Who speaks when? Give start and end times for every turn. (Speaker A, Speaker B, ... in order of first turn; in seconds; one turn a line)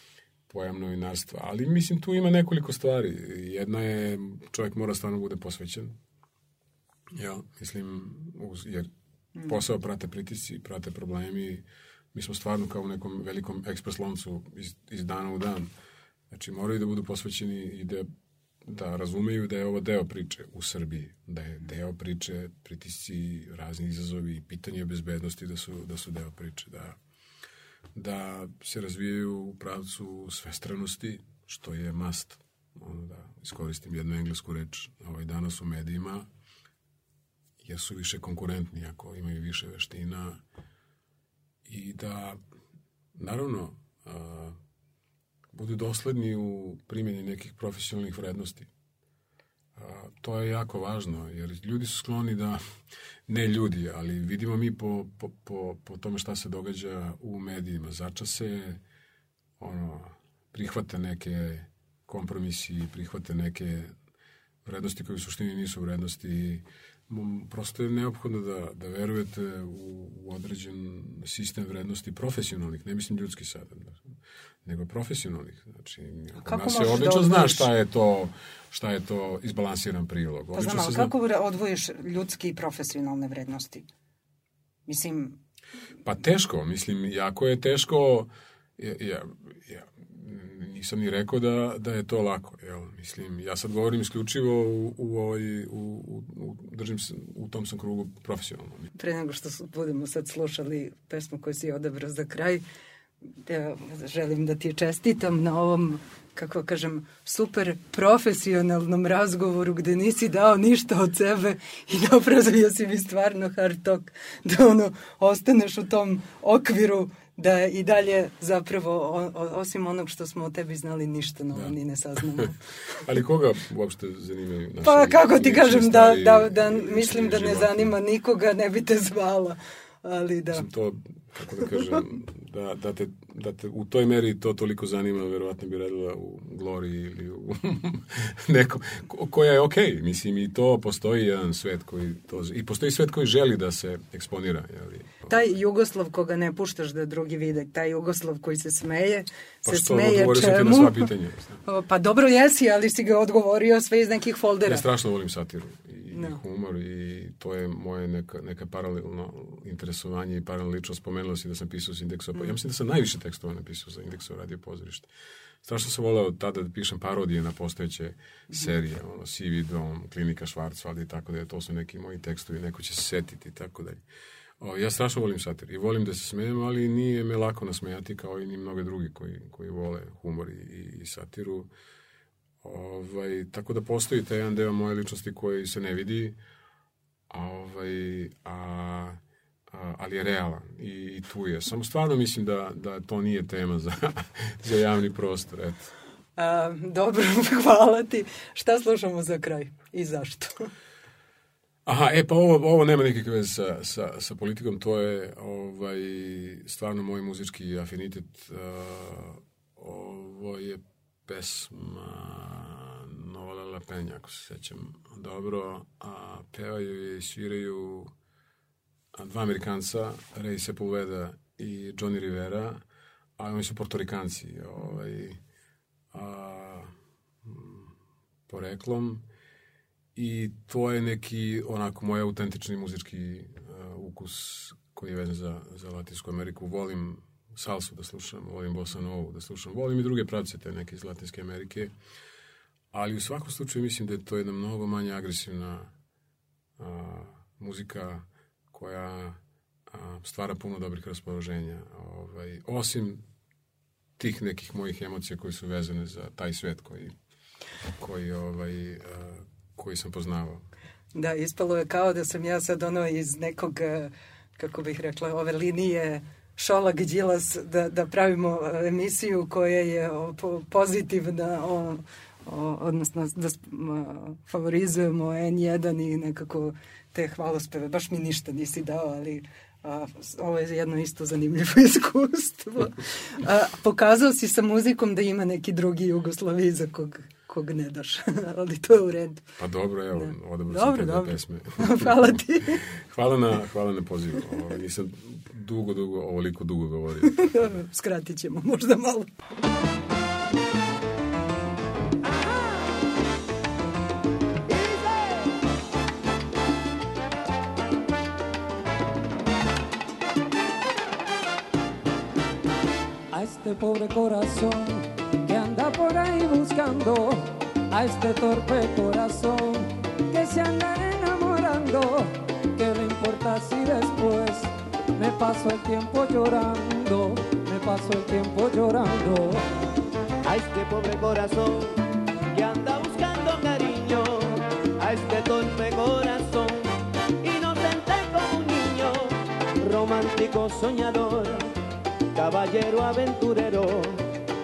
Speaker A: 0.5-6.0
Speaker A: 7.1-8.9
Speaker A: 9.4-15.7
Speaker A: 16.3-18.1
Speaker A: 18.6-27.0
Speaker A: 27.9-36.3
Speaker A: 37.6-40.4
Speaker A: 41.6-42.4
Speaker A: 43.1-44.6
Speaker A: 45.5-48.7
Speaker A: 49.8-52.6
Speaker A: 53.3-58.8
Speaker A: 59.6-63.9
Speaker A: 64.6-74.0
Speaker A: 74.6-81.1
Speaker B: 76.3-77.7
Speaker B: 80.5-83.9
Speaker B: 84.9-85.4
Speaker A: 86.0-98.9
Speaker B: 98.9-102.6
Speaker B: 103.5-122.6
Speaker A: 123.0-128.0
Speaker B: 124.8-130.7
Speaker A: 130.5-145.2
Speaker B: 145.3-151.1
Speaker A: 149.6-151.6
Speaker B: 151.6-154.8
Speaker A: 154.6-165.1
Speaker B: 156.1-156.4
Speaker A: 165.6-174.0
Speaker A: 174.6-181.7
Speaker A: 182.6-186.4
Speaker A: 187.3-195.9
Speaker B: 196.4-200.7
Speaker A: 201.8-218.1
Speaker A: 219.1-222.8
Speaker A: 223.4-225.4
Speaker A: 226.1-226.9
Speaker A: 227.4-227.9
Speaker A: 228.5-229.2
Speaker A: 230.1-241.9
Speaker A: 242.9-245.9
Speaker A: 246.8-253.2
Speaker A: 254.2-257.1
Speaker A: 258.0-260.6
Speaker B: 261.1-289.5
Speaker A: 289.6-297.7
Speaker B: 290.1-292.8
Speaker B: 297.3-299.3
Speaker C: 304.7-305.5
Speaker D: 313.3-329.7
Speaker C: 330.4-332.0
Speaker C: 332.5-341.7
Speaker C: 342.3-344.2